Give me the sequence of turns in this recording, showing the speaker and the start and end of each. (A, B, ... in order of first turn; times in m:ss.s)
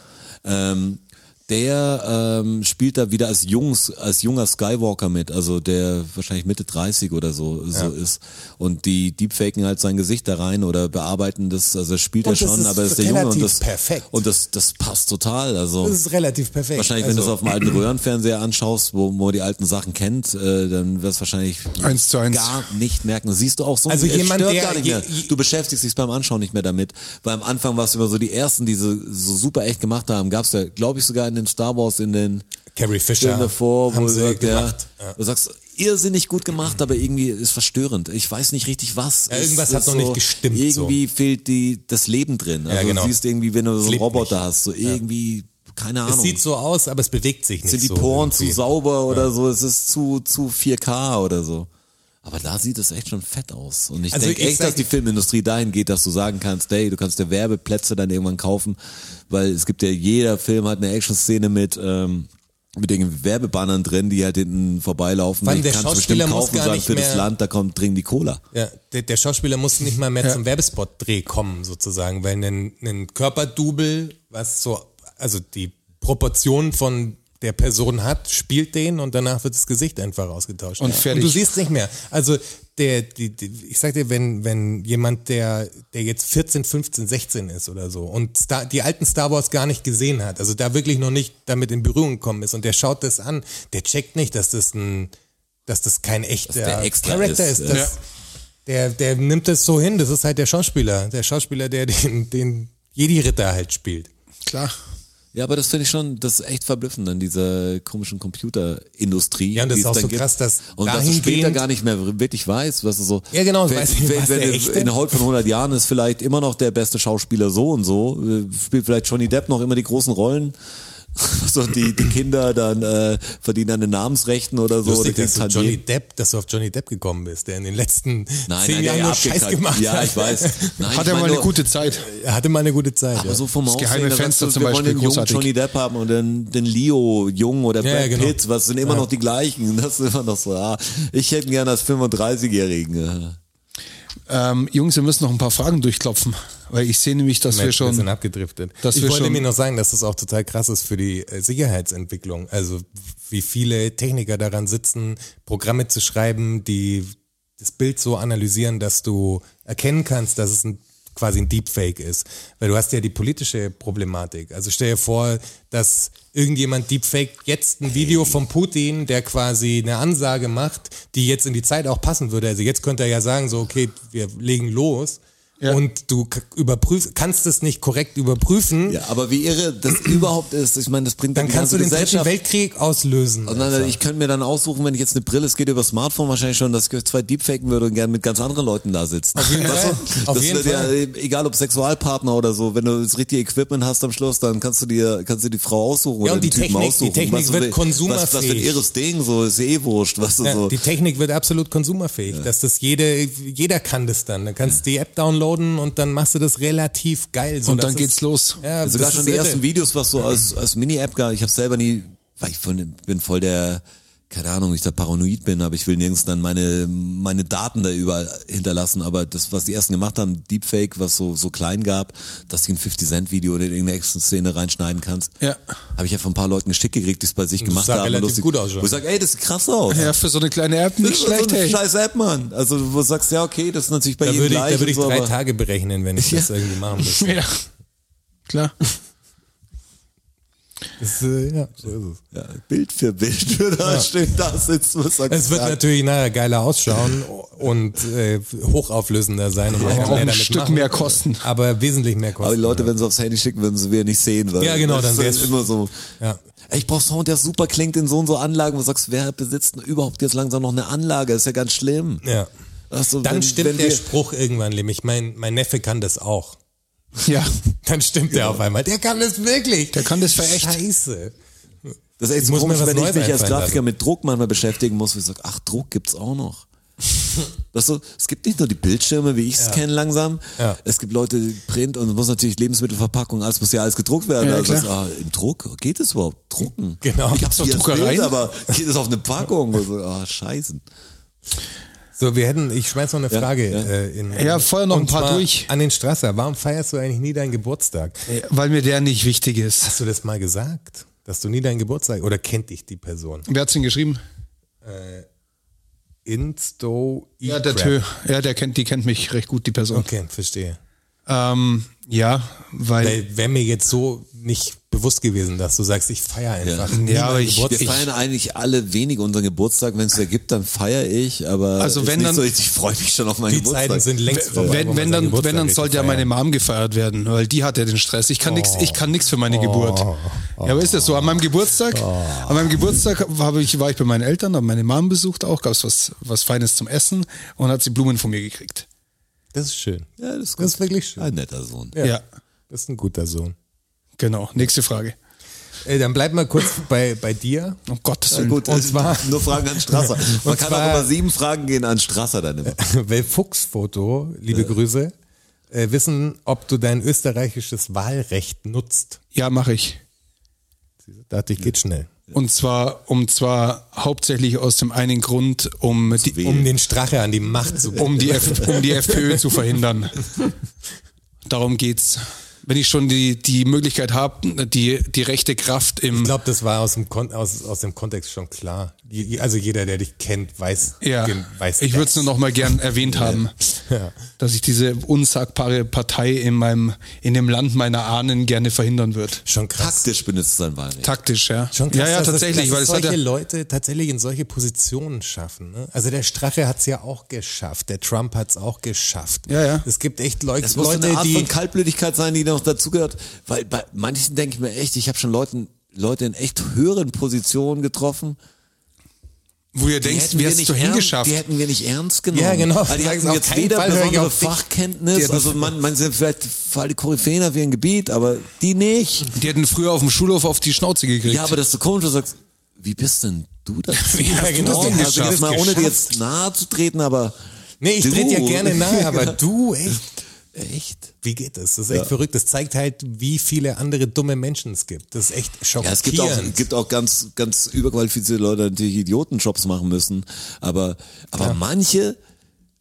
0:00.4-0:16.0 A
0:12.2-0:14.1 B
0:15.8-0:17.5 B
0:16.8-0:32.5 A
0:21.8-0:22.7 C
0:23.9-0:25.3 B
0:32.7-0:35.2 B
0:33.2-0:46.4 A
0:39.3-0:41.0 B
0:42.7-0:43.2 B
0:43.8-0:45.0 B
0:46.1-0:49.3 B
0:47.6-0:51.7 A
0:52.2-0:58.8 A
0:54.1-0:54.9 B
0:59.3-1:08.4 A
1:05.4-1:07.3 B
1:08.5-1:35.1 B
1:20.8-1:21.4 C
1:35.7-1:38.0 B
1:36.5-1:37.9 A
1:38.7-1:44.1 B
1:44.5-1:44.8 C
1:45.3-2:00.6 A
1:49.5-1:51.6 B
1:53.3-1:55.2 B
2:01.2-2:05.8 A
2:04.8-2:10.8 B
2:08.5-2:11.5 A
2:10.9-2:12.1 C
2:11.9-2:13.4 B
2:13.1-2:23.4 A
2:13.7-2:15.5 C
2:17.8-2:18.4 B
2:24.3-2:28.1 C
2:27.5-2:59.0 B
2:28.8-2:29.4 C
2:58.9-3:02.3 A
3:01.4-3:04.0 B
3:03.5-3:20.8 A
3:09.4-3:10.9 B
3:16.2-3:18.8 B
3:20.4-3:29.6 B
3:27.7-3:28.6 C
3:28.8-3:45.3 A
3:46.0-3:50.1 A
3:47.6-3:48.9 B
3:49.9-3:51.8 C
3:51.0-3:55.3 A
3:54.2-3:57.4 B
3:56.2-3:56.5 A
3:57.1-3:57.6 C
3:58.5-3:58.8 C
4:01.0-4:02.2 B
4:02.3-4:05.8 A
4:03.8-4:04.1 B
4:05.3-4:12.9 B
4:09.8-4:10.3 A
4:09.8-4:11.4 C
4:12.4-4:16.0 A
4:14.6-4:15.6 B
4:16.7-4:22.2 A
4:22.2-4:22.5 B
4:22.9-4:24.1 A
4:23.2-4:26.6 B
4:27.2-4:27.6 C
4:27.8-4:31.4 B
4:28.3-4:28.6 A
4:29.9-4:30.8 C
4:32.2-4:36.7 A
4:32.4-4:33.8 B
4:37.7-4:50.8 A
4:44.4-4:44.9 C
4:47.0-4:47.6 B
4:47.4-4:48.4 C
4:52.2-4:58.3 B
4:53.3-4:53.9 A
4:54.3-4:55.7 C
4:58.3-4:59.9 C
4:59.8-5:03.5 B
5:03.5-5:04.2 C
5:04.8-5:05.3 B
5:06.3-5:08.0 B
5:07.4-5:10.1 C
5:09.9-5:10.8 B
5:11.3-5:13.2 C
5:13.0-5:18.1 B
5:16.6-5:17.0 A
5:16.9-5:18.0 C
5:17.7-5:24.7 A
5:21.8-5:22.4 C
5:23.5-5:26.3 B
5:24.3-5:30.1 C
5:28.4-5:31.4 B
5:30.6-5:38.9 C
5:31.9-5:32.7 B
5:39.5-5:41.3 B
5:40.2-5:42.0 A
5:41.9-5:43.6 B
5:44.2-5:45.2 C
5:45.8-5:47.8 B
5:47.9-5:48.7 C
5:48.3-5:52.8 A
5:48.6-5:51.1 B
5:52.7-5:55.1 B
5:55.7-5:59.2 B
5:59.3-6:00.0 C
6:01.1-6:02.1 B
6:02.3-6:06.5 C
6:06.2-6:06.7 A
6:06.4-6:09.2 B
6:08.0-6:10.3 C
6:11.5-6:16.3 C
6:16.1-6:22.3 B
6:21.0-6:23.5 C
6:23.1-6:23.4 A
6:23.9-6:24.2 B
6:24.4-6:29.4 C
6:29.4-6:30.0 B
6:29.8-6:31.1 A
6:31.0-6:33.2 C
6:31.7-6:41.5 B
6:39.5-6:39.9 C
6:40.6-6:48.4 A
6:49.7-6:51.4 C
6:50.0-6:59.3 A
6:52.3-6:54.6 B
6:55.1-6:55.7 C
6:59.3-7:01.6 C
7:01.2-7:07.4 A
7:04.0-7:05.4 C
7:04.2-7:06.1 B
7:07.8-7:10.0 B
7:08.0-7:09.4 A
7:10.5-7:11.1 A
7:11.2-7:16.6 B
7:15.8-7:22.2 A